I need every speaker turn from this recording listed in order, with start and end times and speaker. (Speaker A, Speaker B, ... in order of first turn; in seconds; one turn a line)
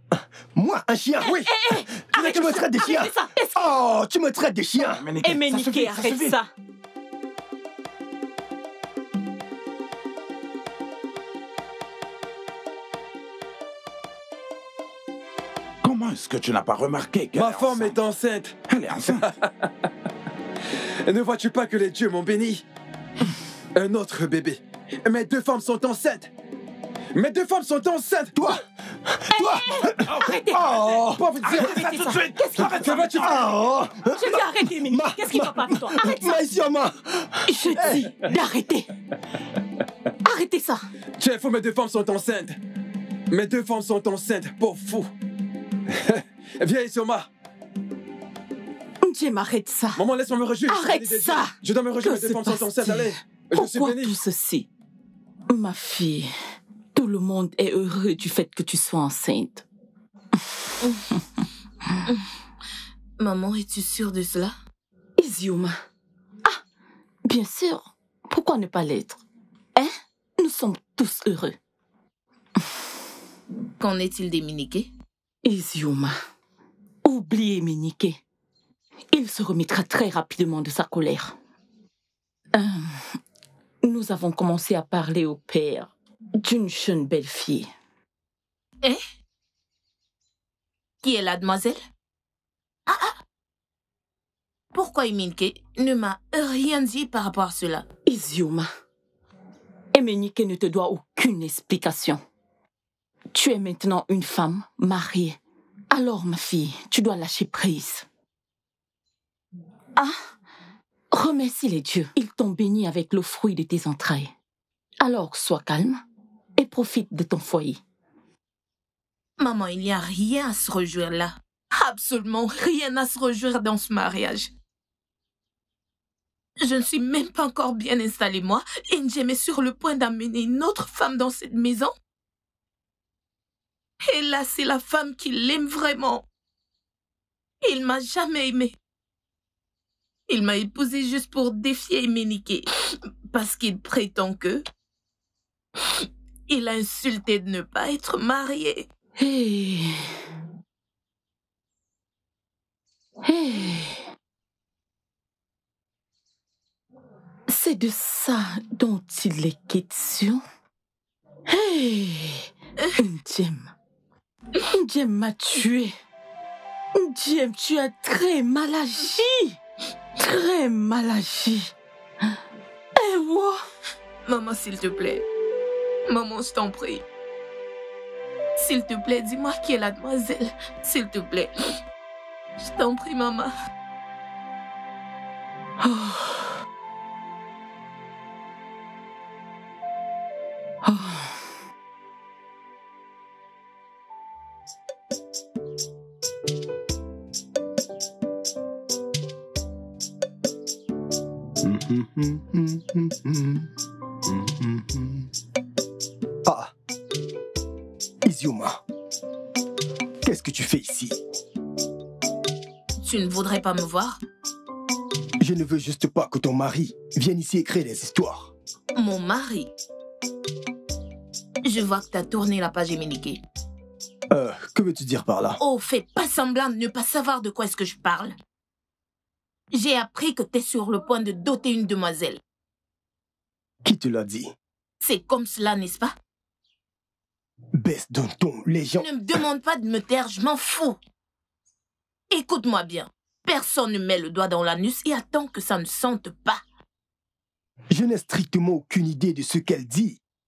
Speaker A: 0.1-1.5
Speaker B: 1.2-3.7
Speaker A: 2.0-5.0
Speaker C: 4.8-6.3
Speaker B: 5.2-6.5
Speaker C: 15.8-18.0
Speaker D: 17.4-19.7
Speaker C: 18.7-19.3
Speaker D: 21.0-22.6
Speaker D: 23.7-26.3
Speaker D: 27.1-28.3
Speaker A: 28.3-31.7
Speaker B: 29.5-30.8
Speaker D: 31.0-32.0
Speaker B: 31.4-33.4
Speaker A: 32.6-38.1
Speaker D: 32.6-33.3
Speaker B: 34.1-36.4
Speaker B: 37.5-38.9
Speaker B: 40.2-40.8
Speaker D: 41.2-42.6
Speaker D: 43.3-45.1
Speaker D: 45.9-47.3
Speaker B: 49.0-50.0
Speaker D: 50.0-54.1
Speaker B: 50.7-54.7
Speaker B: 55.5-56.3
Speaker B: 56.9-59.6
Speaker E: 63.2-64.5
Speaker B: 65.2-65.8
Speaker B: 67.2-69.2
Speaker B: 69.8-71.5
Speaker E: 73.8-74.9
Speaker B: 75.4-76.2
Speaker B: 77.0-78.2
Speaker B: 79.1-81.3
Speaker B: 82.5-83.1
Speaker B: 83.8-87.7
Speaker E: 91.0-91.8
Speaker E: 92.9-93.2
Speaker E: 94.7-97.8
Speaker B: 98.0-98.7
Speaker B: 99.9-102.2
Speaker B: 103.3-105.4
Speaker B: 105.9-108.0
Speaker B: 111.1-114.3
Speaker B: 115.0-116.0
Speaker B: 116.6-117.8
Speaker E: 119.4-124.5
Speaker E: 126.6-131.9
Speaker E: 134.1-136.2
Speaker E: 137.6-138.8
Speaker E: 140.3-142.7
Speaker E: 143.3-144.6
Speaker E: 146.5-148.9
Speaker B: 149.2-150.1
Speaker B: 153.2-154.0
Speaker B: 157.5-160.4
Speaker B: 161.5-163.7
Speaker B: 164.6-165.9
Speaker B: 166.9-169.6
Speaker B: 170.2-171.7
Speaker B: 172.9-173.6
Speaker E: 174.2-175.2
Speaker E: 176.1-177.0
Speaker E: 178.6-181.5
Speaker E: 182.6-183.5
Speaker B: 185.8-186.5
Speaker B: 190.8-191.3
Speaker A: 201.6-203.7
Speaker A: 204.2-205.3
Speaker A: 206.4-206.7
Speaker A: 208.2-208.8
Speaker A: 210.2-211.2
Speaker E: 213.0-214.2
Speaker A: 215.4-218.5
Speaker E: 218.9-219.7
Speaker E: 221.6-223.4
Speaker A: 224.3-225.6
Speaker E: 225.6-228.3
Speaker E: 229.7-232.4
Speaker A: 233.8-234.5
Speaker E: 235.0-236.1
Speaker A: 237.7-239.1
Speaker E: 239.0-241.0
Speaker E: 242.3-246.6
Speaker A: 247.9-250.2